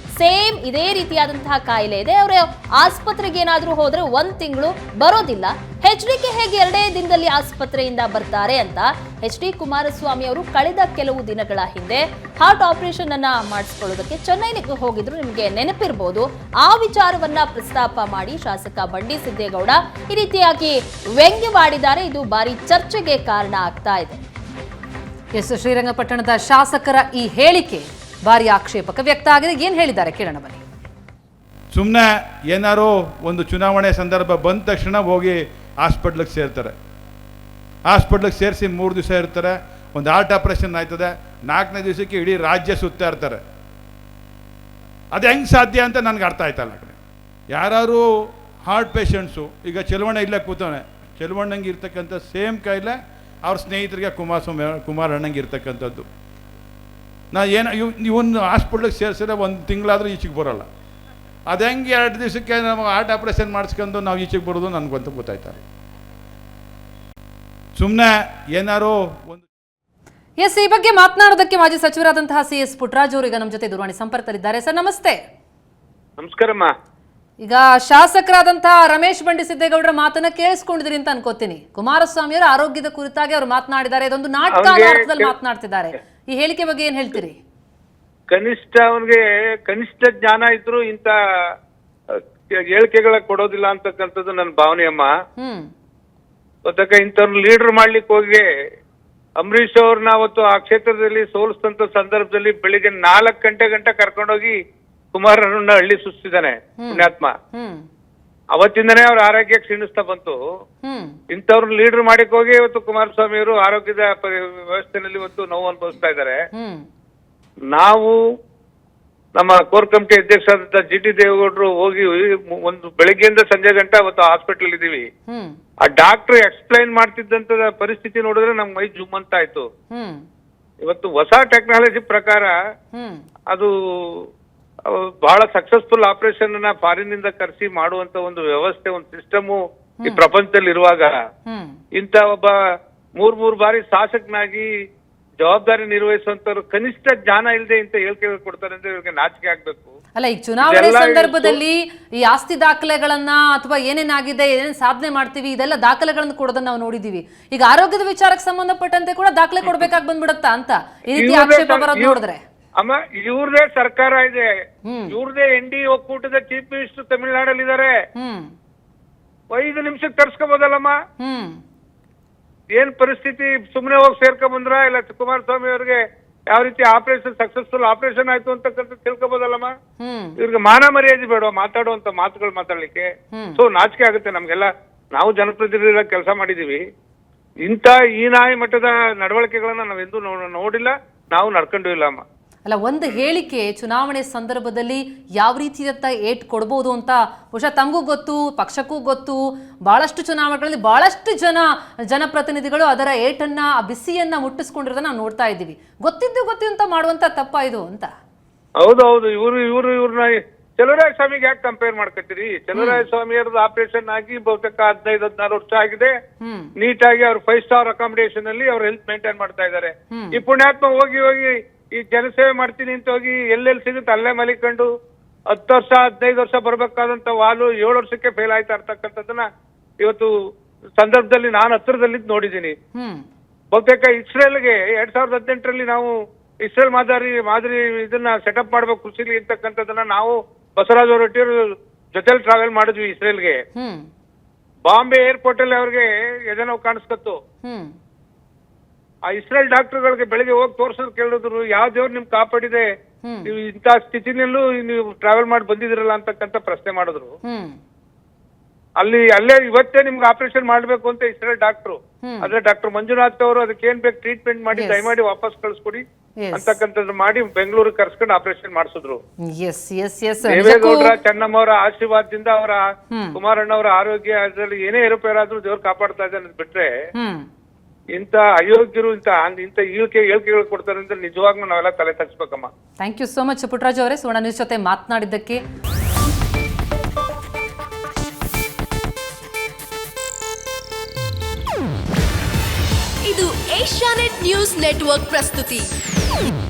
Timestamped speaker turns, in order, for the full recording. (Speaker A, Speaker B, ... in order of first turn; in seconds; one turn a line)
Speaker A: 0.1-24.2
Speaker B: 25.4-30.6
Speaker C: 31.7-36.7
Speaker C: 37.9-43.4
Speaker C: 45.1-47.0
Speaker C: 47.5-48.0
Speaker C: 48.6-56.1
Speaker C: 57.3-60.7
Speaker C: 61.5-65.6
Speaker C: 67.8-69.4
Speaker B: 70.4-75.2
Speaker D: 76.2-76.7
Speaker B: 77.4-87.4
Speaker D: 84.5-85.3
Speaker D: 88.3-91.1
Speaker D: 92.7-95.1
Speaker B: 95.4-95.7
Speaker D: 96.7-98.5
Speaker D: 99.4-104.6
Speaker D: 105.1-107.3
Speaker B: 106.8-107.8
Speaker D: 108.5-110.4
Speaker B: 110.8-111.1
Speaker D: 111.3-116.4
Speaker B: 116.5-116.8
Speaker D: 117.7-118.1
Speaker D: 119.4-125.0
Speaker B: 125.3-125.5
Speaker D: 125.8-129.7
Speaker B: 129.9-130.2
Speaker D: 130.8-132.5
Speaker B: 132.9-133.2
Speaker D: 133.5-134.2
Speaker D: 134.9-141.1
Speaker B: 141.5-141.7
Speaker D: 141.9-142.5
Speaker D: 143.2-144.7
Speaker D: 145.4-149.9
Speaker B: 150.2-162.4
Speaker D: 150.6-151.6
Speaker D: 161.1-162.2
Speaker D: 162.8-164.5
Speaker B: 164.9-165.1
Speaker D: 165.1-167.9
Speaker B: 168.2-168.5
Speaker D: 169.5-171.0
Speaker B: 171.2-171.6
Speaker D: 172.7-179.7
Speaker B: 180.0-180.3
Speaker D: 180.4-186.8
Speaker B: 183.3-183.6
Speaker D: 187.6-192.2
Speaker B: 192.7-208.1
Speaker D: 208.8-216.1
Speaker B: 212.7-213.1
Speaker B: 216.4-216.7
Speaker D: 216.8-224.9
Speaker B: 220.1-220.4
Speaker D: 225.5-229.4
Speaker D: 230.0-230.3
Speaker D: 231.0-232.8
Speaker B: 232.9-233.2
Speaker D: 233.7-236.1
Speaker D: 236.6-241.6
Speaker D: 242.1-243.6
Speaker B: 243.8-244.1
Speaker D: 244.9-247.4
Speaker B: 247.6-247.9
Speaker D: 249.3-252.9
Speaker B: 253.2-253.5
Speaker D: 253.4-257.3
Speaker B: 257.4-257.8
Speaker D: 259.0-266.0
Speaker B: 262.2-262.5
Speaker B: 264.7-265.1
Speaker B: 266.4-266.8
Speaker D: 266.5-269.2
Speaker B: 269.5-271.1
Speaker D: 270.4-276.9
Speaker B: 273.1-273.4
Speaker B: 277.1-277.4
Speaker D: 278.1-282.7
Speaker B: 283.0-285.6
Speaker E: 293.2-295.9